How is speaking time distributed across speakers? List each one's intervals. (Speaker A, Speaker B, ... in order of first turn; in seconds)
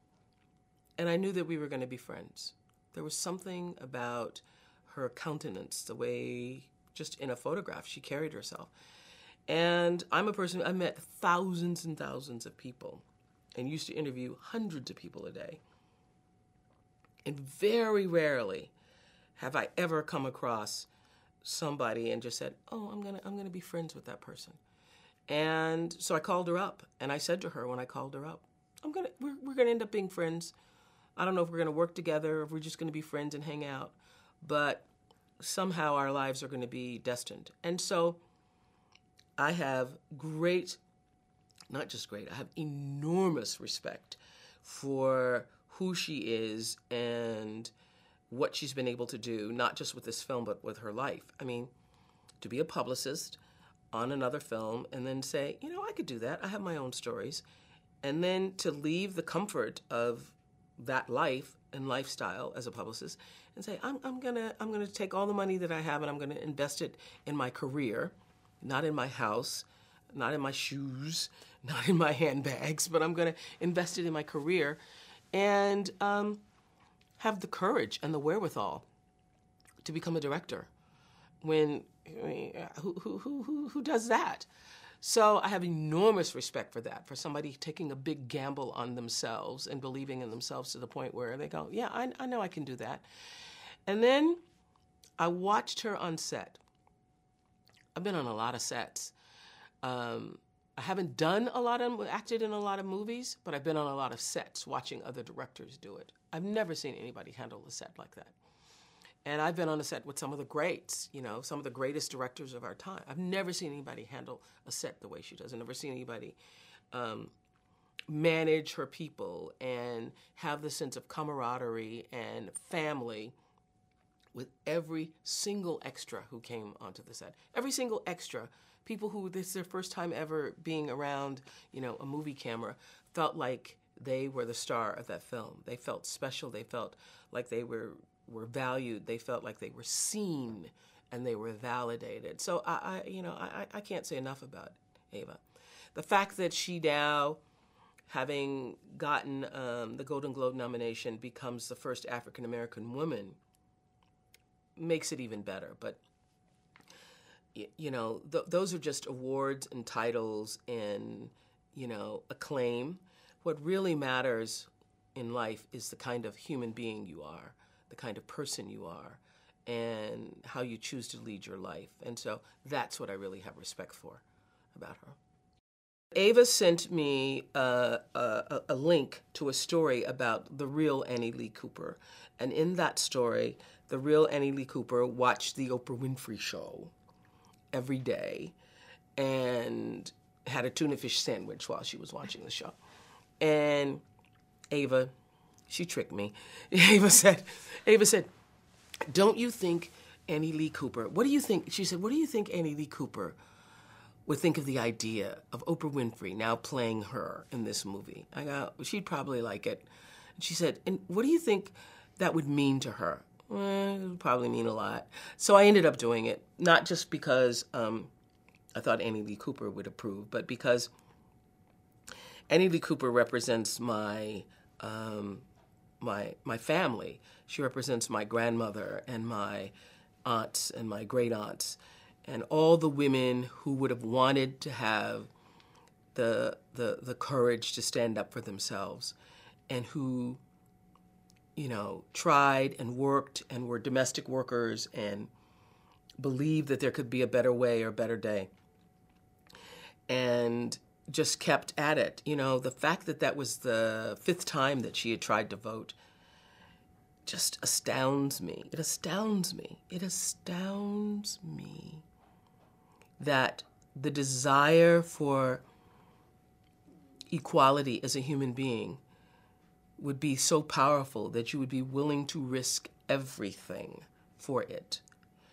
Speaker A: 1.0-8.7, 9.5-15.6, 17.2-18.7, 19.4-20.9, 21.4-24.6, 25.3-30.5, 31.2-34.9, 35.4-38.2, 39.4-40.8, 41.7-47.7, 48.3-51.7, 52.4-53.4, 53.9-57.4, 58.0-74.8, 75.3-76.4, 77.2-78.8, 79.8-80.7, 81.4-84.5, 85.0-93.1, 93.8-94.4, 95.2-96.6, 98.0-99.1, 99.8-108.3, 109.2-116.4, 116.9-117.3, 118.1-123.3, 124.3-145.4, 145.9-147.4, 148.1-153.4, 154.8-156.0, 157.6-174.2, 174.7-175.2, 176.1-186.9, 187.7-188.6, 189.2-192.8, 193.4-194.0, 194.7-195.1, 195.7-198.3, 199.0-203.4, 204.3-218.1, 218.7-220.9, 222.5-225.4, 226.0-229.7, 230.2-235.3, 236.1-239.2, 239.7-240.4, 241.6-245.3, 246.2-248.5, 250.1-255.9, 257.3-262.0, 263.2-265.6, 267.3-269.0, 270.0-275.0